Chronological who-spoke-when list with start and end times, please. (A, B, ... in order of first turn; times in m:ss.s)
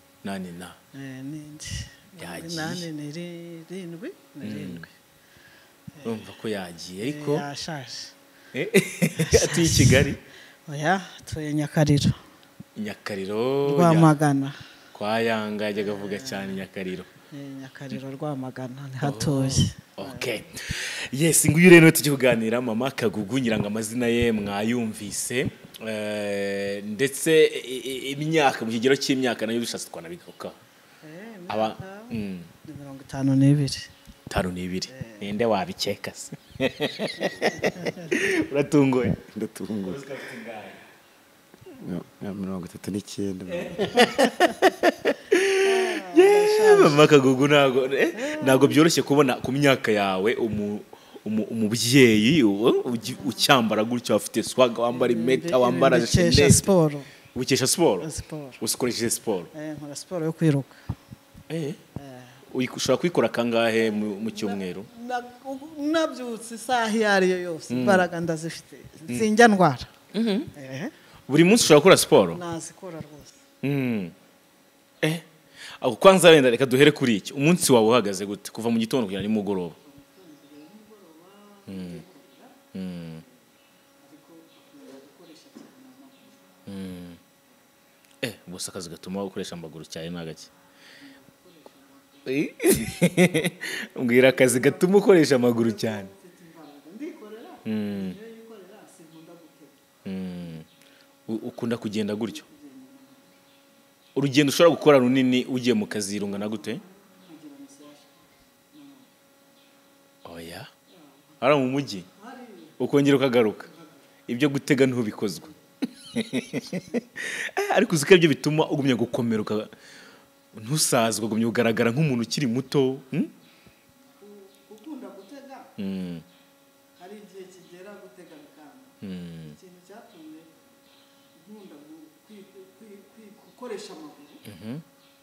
0:00.2-0:00.8 A
0:00.9-0:04.9 B
0:02.2-0:02.9 A
0:04.4-0:04.8 A
0:06.0-0:06.2 B
0:06.0-0:07.4 A
0:07.0-0:08.1 B
0:08.5-0:10.2 A
0:09.1-0:10.1 B
0:10.7-0:12.2 B
0:12.8-0:14.1 A
0:13.6-0:14.6 B
0:14.9-0:17.1 A
0:15.7-0:16.6 B
0:17.3-0:20.4 B
0:19.0-0:30.6 A
0:31.0-0:33.9 B
0:31.5-0:32.5 A
0:34.3-0:39.2 A
0:34.9-0:35.3 B
0:37.2-0:38.2 B
0:39.3-0:40.0 C
0:39.8-0:40.8 A
0:41.7-0:44.3 C
0:43.5-0:56.7 A
0:45.6-0:47.1 B
0:48.1-0:48.8 B
0:54.9-0:57.1 B
0:57.3-0:58.1 A
0:58.0-0:58.6 B
0:58.6-0:59.5 A
0:59.5-1:00.7 B
1:01.5-1:01.8 A
1:02.0-1:02.4 B
1:02.5-1:04.9 A
1:03.8-1:09.9 B
1:07.7-1:08.1 A
1:10.1-1:10.5 A
1:10.5-1:10.9 B
1:11.3-1:12.4 A
1:12.3-1:13.4 B
1:13.6-1:14.1 A
1:15.8-1:19.8 A
1:19.8-1:22.6 B
1:21.7-1:22.0 A
1:22.7-1:23.2 A
1:24.0-1:26.4 B
1:26.6-1:27.2 A
1:28.2-1:30.5 A
1:31.0-1:32.5 B
1:32.2-1:36.1 A
1:34.3-1:39.8 B
1:37.6-1:38.2 A
1:40.0-1:40.7 A
1:41.3-1:42.4 A
1:42.4-1:43.2 B
1:44.1-1:46.8 A
1:46.5-1:48.2 B
1:48.7-1:49.1 B
1:50.2-1:50.7 A
1:51.4-1:52.1 A
1:52.1-1:52.8 B
1:52.8-1:53.7 A
1:53.6-1:54.0 B
1:54.3-1:59.7 A
2:00.5-2:03.3 A
2:04.2-2:05.7 B
2:05.8-2:06.2 A
2:07.0-2:09.0 B
2:09.0-2:09.6 A
2:09.5-2:10.5 B
2:11.4-2:14.4 B
2:14.4-2:14.8 A